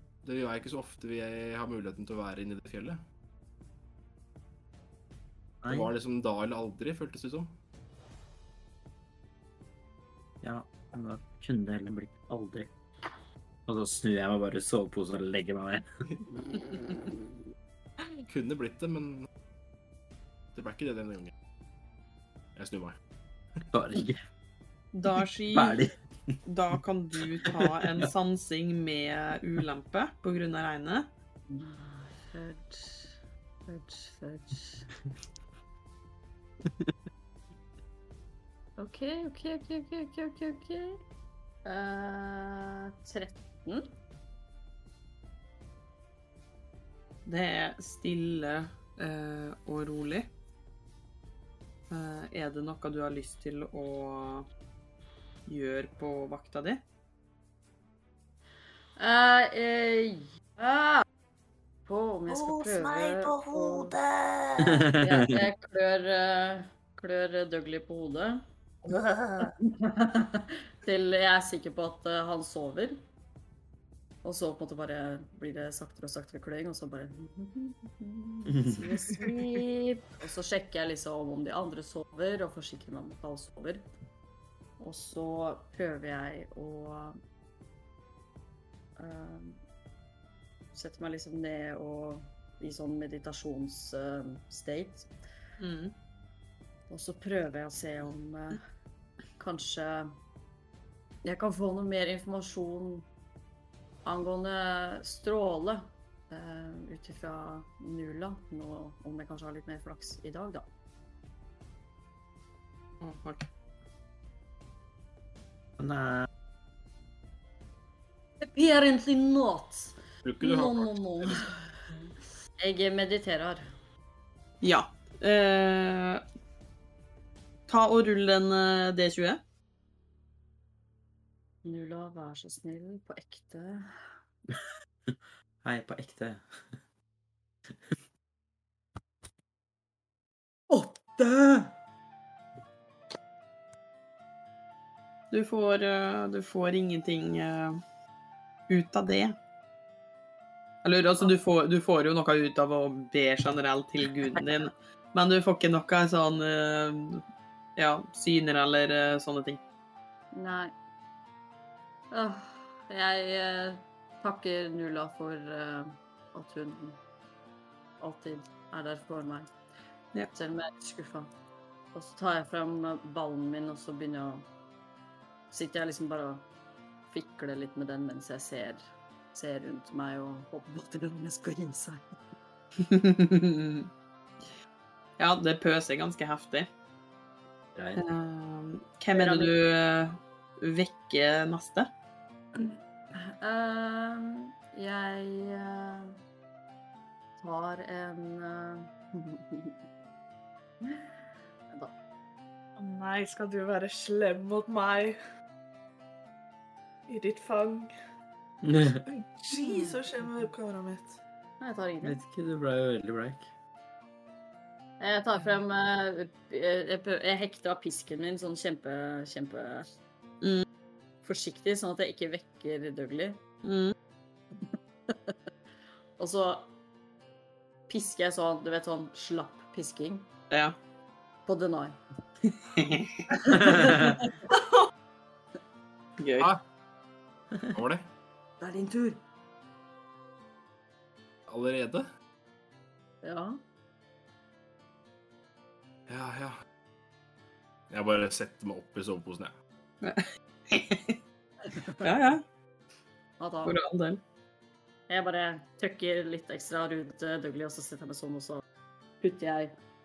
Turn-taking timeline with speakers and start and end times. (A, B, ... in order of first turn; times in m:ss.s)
0:00.2-0:03.0 A
0:05.6-0:05.9 B
0:05.6-0:07.6 A
0:10.4-0:12.7 B
0:13.6-0:15.8 B
0:18.3-0:19.3 A
0:20.5-0:21.3 A
0:22.6-0:23.0 A
0:23.7-0:24.2 B
0:24.9-0:25.8 C
0:25.5-0:25.9 B
0:26.4-0:31.1 C
0:27.4-0:28.0 B
0:31.5-0:33.1 D
0:33.7-0:34.9 D
0:38.8-0:41.0 D
0:41.6-0:43.9 D
0:47.2-0:50.3 C
0:51.9-0:54.5 C
0:55.4-0:56.8 C
0:59.0-1:01.0 D
1:01.8-1:03.9 D
1:02.3-1:04.9 E
1:04.6-1:05.4 B
1:05.0-1:08.4 D
1:08.8-1:09.6 E
1:09.4-1:13.0 D
1:14.2-1:23.9 D
1:18.5-1:18.9 B
1:24.8-1:27.2 D
1:29.0-1:29.6 D
1:30.7-1:35.1 D
1:35.6-1:35.9 C
1:36.9-1:38.6 D
1:39.4-1:40.2 D
1:41.2-1:43.0 D
1:44.0-1:50.6 D
1:53.0-1:53.4 C
1:55.8-1:56.3 B
1:58.4-2:02.1 D
2:00.2-2:01.5 A
2:02.6-2:03.6 D
2:04.6-2:06.2 C
2:07.7-2:09.4 C
2:11.6-2:13.9 D
2:15.1-2:16.4 B
2:20.7-2:21.5 B
2:20.9-2:21.6 D
2:25.3-2:27.8 C
2:28.7-2:29.4 C
2:30.8-2:37.2 C
2:37.8-2:39.6 C
2:40.3-2:40.7 D
2:42.1-2:47.0 D
2:48.0-2:49.5 D
2:50.3-2:51.3 D
2:51.9-2:54.5 D
2:55.5-2:56.4 D
2:57.1-2:58.8 D
2:59.3-3:02.2 D
3:02.8-3:03.9 C
3:05.2-3:06.7 C
3:07.7-3:08.0 B
3:08.0-3:11.9 C
3:09.1-3:09.5 D
3:12.6-3:16.2 D
3:17.4-3:19.8 D
3:22.8-3:25.2 E
3:27.1-3:27.9 E
3:28.6-3:29.0 B
3:29.1-3:31.2 E
3:29.5-3:30.0 D
3:31.6-3:32.2 D
3:32.0-3:33.4 B
3:35.0-3:39.8 D
3:41.2-3:43.4 D
3:43.6-3:43.9 C
3:45.1-3:45.3 D
3:46.2-3:46.7 D
3:47.9-3:50.3 D
3:51.4-3:52.0 D
3:52.6-3:54.0 C
3:53.4-3:54.2 D
3:53.6-3:54.2 B
3:56.2-3:56.5 C
3:57.7-3:58.0 A
3:58.6-3:59.2 D
4:01.5-4:02.1 A
4:03.2-4:03.6 D
4:06.1-4:06.6 A
4:07.9-4:09.5 A
4:10.0-4:11.2 C
4:11.7-4:12.1 D
4:12.0-4:12.4 C
4:13.4-4:13.8 D
4:13.6-4:14.2 C
4:15.1-4:18.6 D
4:19.2-4:19.7 D